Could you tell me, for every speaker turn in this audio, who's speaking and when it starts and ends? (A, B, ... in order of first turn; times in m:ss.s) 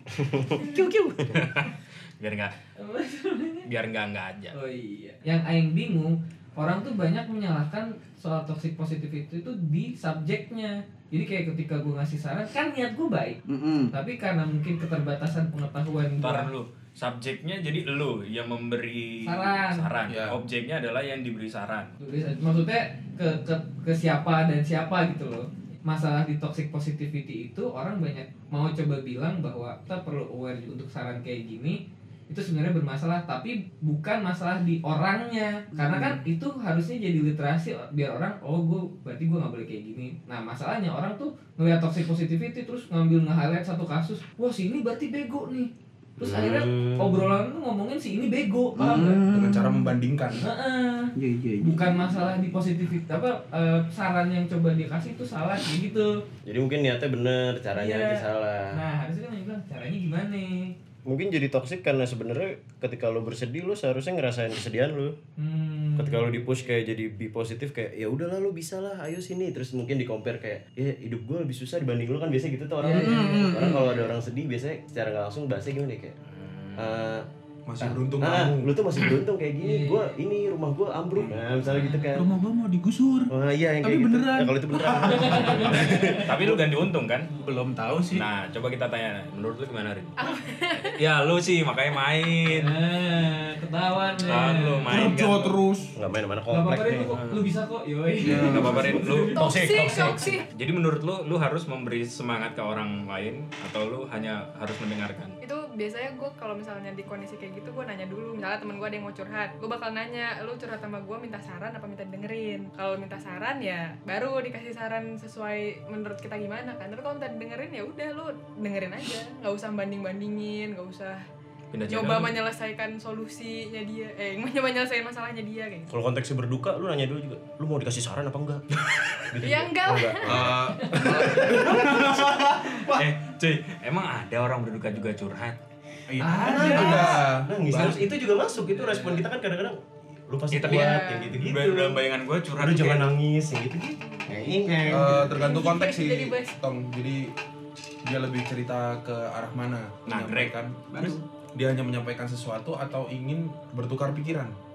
0:00.2-0:01.4 A
0:01.2-0:02.5 B
0:02.8-0:03.7 C
0:03.6-0:04.5 B
0:04.5-0:13.4 C
0:13.5-0:13.9 D
0:13.9-0:16.5 C
0:16.2-0:21.9 B
0:19.2-0:19.9 C
0:20.1-0:20.4 E
0:22.0-0:49.2 C
0:46.2-0:47.4 A
0:48.8-0:49.2 A
0:48.9-0:49.8 D
0:49.2-0:50.4 E
0:50.3-0:56.2 C
0:51.2-0:52.0 A
0:56.4-0:58.8 A
0:57.7-1:00.7 C
1:01.0-1:05.2 A
1:05.4-1:06.7 C
1:06.0-1:16.2 A
1:12.8-1:13.9 C
1:12.9-1:14.0 D
1:16.4-1:16.9 B
1:16.8-1:17.3 A
1:17.6-1:18.7 E
1:18.2-1:22.3 A
1:19.6-1:20.1 C
1:21.6-1:22.2 C
1:22.1-1:25.5 D
1:23.3-1:26.6 A
1:25.1-1:26.2 C
1:25.3-1:27.3 B
1:27.4-1:28.2 D
1:28.1-1:30.2 B
1:30.2-1:31.0 F
1:30.7-1:32.8 B
1:32.4-1:35.0 C
1:34.2-1:35.6 B
1:34.7-1:35.9 D
1:36.0-1:37.1 A
1:36.5-1:39.5 C
1:36.9-1:37.5 B
1:38.3-1:45.4 B
1:38.3-1:40.5 F
1:38.6-1:39.0 E
1:39.4-1:40.2 A
1:45.4-2:01.2 F
2:01.7-2:02.4 B
2:01.9-2:05.9 F
2:05.9-2:08.6 A
2:09.3-2:12.1 A
2:09.4-2:10.5 F
2:10.2-2:13.0 E
2:10.8-2:11.8 C
2:11.7-2:15.6 B
2:12.0-2:12.4 D
2:16.1-2:17.1 D
2:16.2-2:17.2 B
2:16.2-2:21.9 A
2:16.6-2:17.3 F
2:16.6-2:18.0 E
2:17.7-2:18.1 B
2:18.2-2:19.0 C
2:20.5-2:23.2 B
2:20.7-2:21.4 F
2:22.6-2:25.5 A
2:24.0-2:24.6 F
2:24.7-2:25.2 C
2:24.8-2:27.3 E
2:25.3-2:26.6 F
2:28.0-2:30.8 E
2:30.0-2:31.2 B
2:30.9-2:31.2 D
2:31.5-2:34.5 E